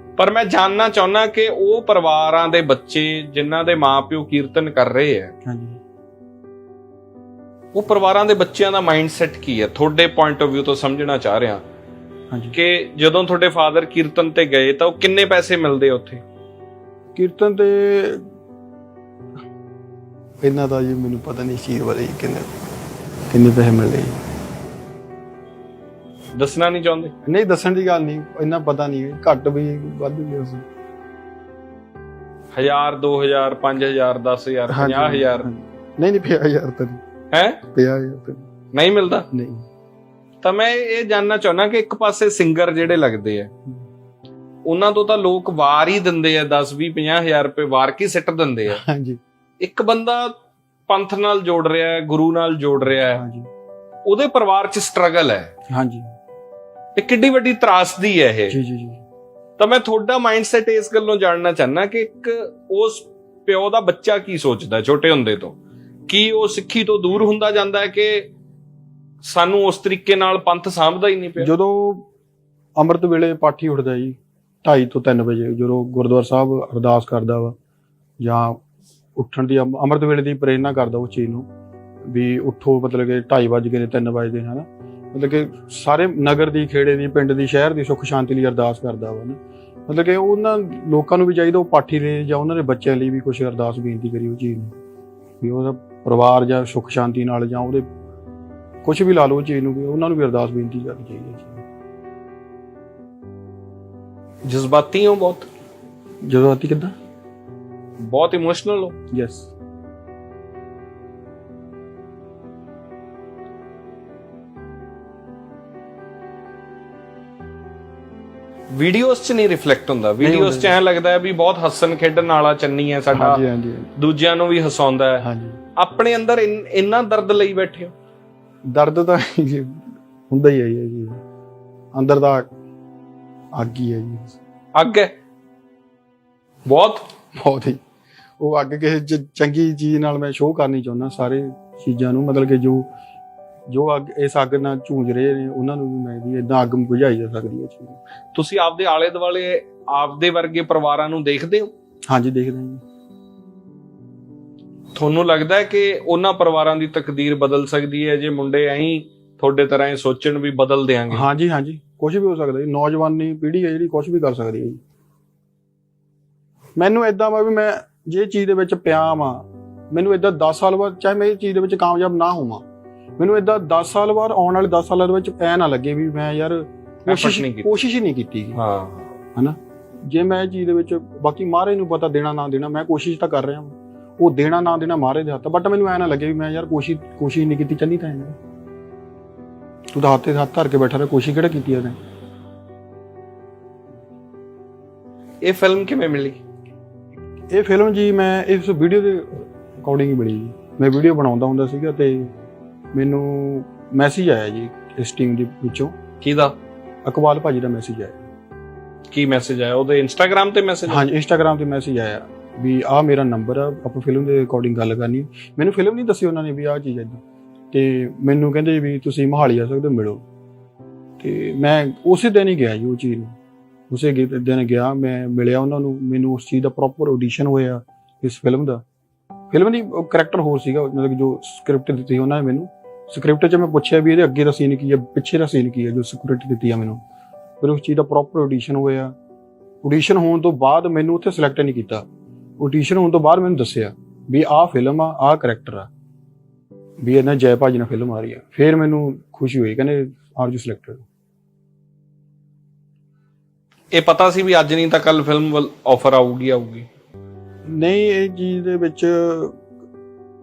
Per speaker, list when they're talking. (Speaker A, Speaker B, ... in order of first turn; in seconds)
Speaker A: 0.2-5.3, 7.7-11.7, 12.5-16.2, 26.4-27.1, 32.5-35.5, 37.3-37.6, 38.7-39.3, 40.4-43.5, 44.7-48.8, 49.6-50.4, 50.9-53.2, 54.0-55.5, 57.0-58.6, 59.6-65.6, 66.1-68.3, 69.2-71.5, 104.4-105.5, 108.0-109.0, 118.7-123.4, 124.0-125.2, 125.8-127.9, 134.8-135.1, 136.7-137.1, 148.3-151.7, 154.9-161.2, 177.1-177.7, 178.6-179.1, 195.4-196.4, 206.2-206.5, 209.1-211.1, 253.9-256.9
Speaker B: 5.5-5.8, 12.3-12.6, 17.1-18.3, 20.4-22.5, 23.3-24.2, 27.2-30.6, 34.7-37.0, 37.7-38.5, 39.3-39.6, 48.7-49.2, 53.1-53.5, 55.7-56.1, 58.5-59.0, 71.4-72.0, 72.8-77.5, 78.2-78.6, 79.2-81.5, 82.0-94.7, 95.4-97.9, 98.8-101.6, 106.2-106.9, 109.1-109.5, 120.2-120.8, 123.1-123.9, 125.2-125.6, 128.7-131.2, 131.9-132.5, 133.5-134.4, 137.4-137.8, 138.4-142.9, 143.7-148.0, 152.1-152.8, 161.1-164.8, 166.8-172.6, 173.2-178.6, 179.3-188.4, 189.9-192.0, 197.5-202.3, 202.9-206.0, 207.1-208.2, 210.9-217.2, 217.7-220.2, 221.2-223.4, 223.9-228.8, 229.5-237.0, 237.6-239.1, 239.8-242.1, 242.6-245.9, 247.0-251.0, 257.7-259.6